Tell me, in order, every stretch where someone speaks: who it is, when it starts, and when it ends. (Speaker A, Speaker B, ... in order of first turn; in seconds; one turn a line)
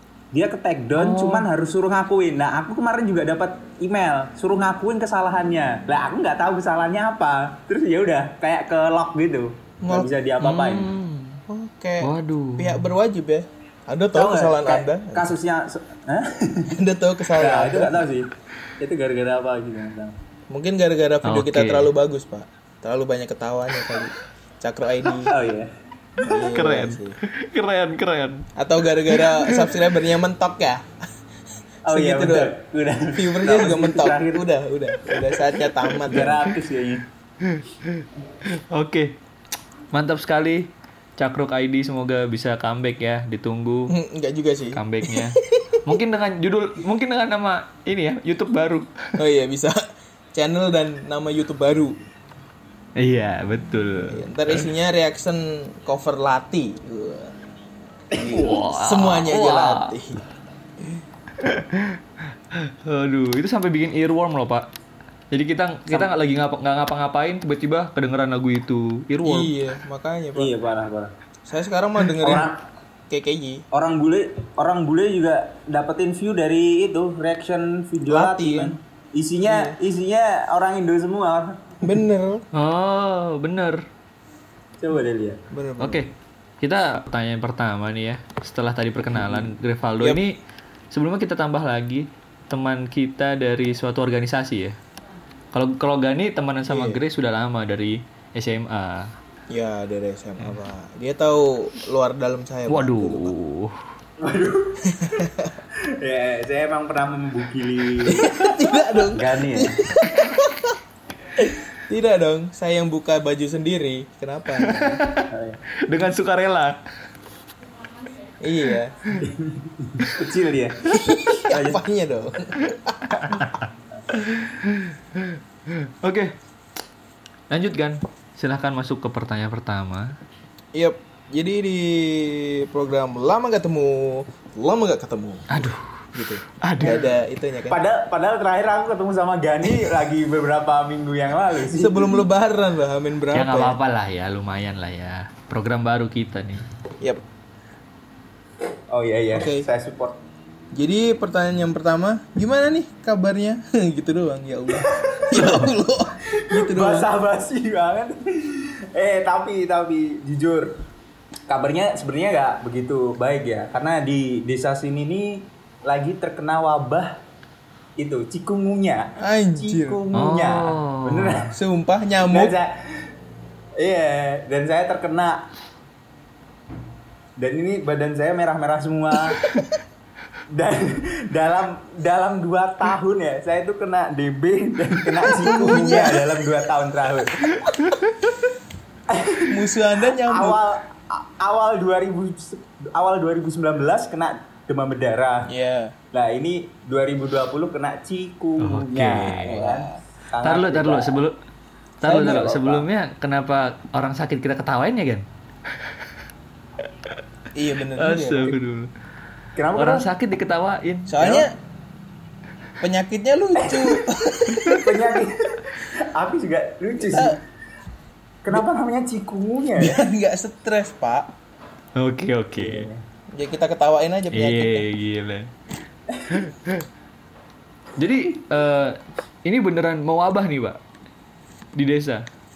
Speaker A: 0.3-10.9
Speaker B: 0.9-1.5
Speaker C: 9.8-10.1
Speaker B: 10.4-11.4
Speaker C: 11.5-15.4
Speaker B: 12.0-12.9
Speaker A: 14.1-16.8
Speaker C: 16.7-18.1
Speaker A: 17.4-20.1
Speaker C: 20.5-25.3
Speaker B: 21.2-21.9
Speaker A: 25.2-26.7
Speaker C: 26.2-27.2
Speaker B: 26.5-28.5
Speaker C: 28.6-30.9
Speaker B: 29.1-29.9
Speaker C: 31.9-32.6
Speaker A: 31.9-34.5
Speaker C: 33.1-36.4
Speaker B: 35.9-36.4
Speaker A: 36.1-37.0
Speaker B: 37.4-39.1
Speaker B: 39.9-43.9
Speaker C: 43.9-45.8
Speaker B: 44.8-49.1
Speaker C: 49.2-49.8
Speaker C: 50.3-52.0
Speaker B: 53.0-54.2
Speaker C: 54.0-57.4
Speaker C: 58.1-60.2
Speaker B: 58.3-60.0
Speaker B: 61.4-62.0
Speaker B: 62.5-64.7
Speaker B: 65.3-69.5
Speaker C: 69.2-70.5
Speaker A: 70.3-71.1
Speaker C: 71.5-72.5
Speaker A: 72.2-72.6
Speaker C: 73.1-73.6
Speaker A: 73.7-81.9
Speaker C: 78.1-78.8
Speaker C: 79.5-79.8
Speaker C: 81.8-82.5
Speaker B: 82.5-83.8
Speaker A: 84.8-85.4
Speaker C: 85.5-86.0
Speaker B: 85.8-90.4
Speaker C: 89.1-90.2
Speaker B: 90.9-94.8
Speaker B: 95.5-99.1
Speaker C: 96.7-97.0
Speaker C: 99.5-103.3
Speaker B: 102.7-103.8
Speaker A: 104.2-109.8
Speaker C: 104.9-105.5
Speaker C: 108.0-110.8
Speaker C: 111.4-114.9
Speaker B: 114.6-115.3
Speaker A: 114.7-115.6
Speaker B: 115.8-116.8
Speaker C: 118.4-119.1
Speaker A: 119.1-121.8
Speaker C: 120.9-123.5
Speaker B: 123.1-126.3
Speaker B: 127.5-130.2
Speaker C: 130.7-137.8
Speaker B: 135.5-135.9
Speaker B: 136.6-137.1
Speaker A: 137.7-142.2
Speaker C: 141.7-143.8
Speaker B: 143.3-146.6
Speaker A: 148.9-150.2
Speaker C: 149.3-149.7
Speaker C: 150.7-157.1
Speaker B: 155.3-155.7
Speaker A: 156.3-160.8
Speaker A: 161.5-167.2
Speaker A: 168.0-171.6
Speaker C: 169.2-170.0
Speaker B: 170.1-171.4
Speaker C: 171.5-172.6
Speaker A: 172.2-173.1
Speaker A: 173.8-175.5
Speaker A: 177.4-179.5
Speaker C: 179.4-179.8
Speaker A: 180.5-187.8
Speaker C: 185.3-186.5
Speaker B: 187.6-188.0
Speaker A: 189.1-189.6
Speaker C: 189.5-190.6
Speaker A: 190.2-195.5
Speaker C: 195.5-195.9
Speaker A: 196.1-201.2
Speaker B: 198.6-199.6
Speaker C: 199.4-200.0
Speaker B: 200.4-201.4
Speaker B: 202.0-205.3
Speaker A: 202.1-202.9
Speaker C: 202.1-202.5
Speaker C: 207.6-208.6
Speaker B: 207.9-208.9
Speaker A: 209.6-210.1
Speaker B: 209.8-211.2
Speaker C: 211.1-211.5
Speaker A: 211.2-211.5
Speaker C: 212.8-215.2
Speaker A: 213.6-214.1
Speaker A: 214.6-217.4
Speaker C: 217.0-217.4
Speaker A: 218.4-220.1
Speaker C: 219.8-221.3
Speaker B: 222.0-222.9
Speaker A: 222.6-223.0
Speaker C: 223.3-224.9
Speaker B: 224.3-225.5
Speaker B: 226.3-226.9
Speaker B: 228.0-230.8
Speaker B: 231.8-232.2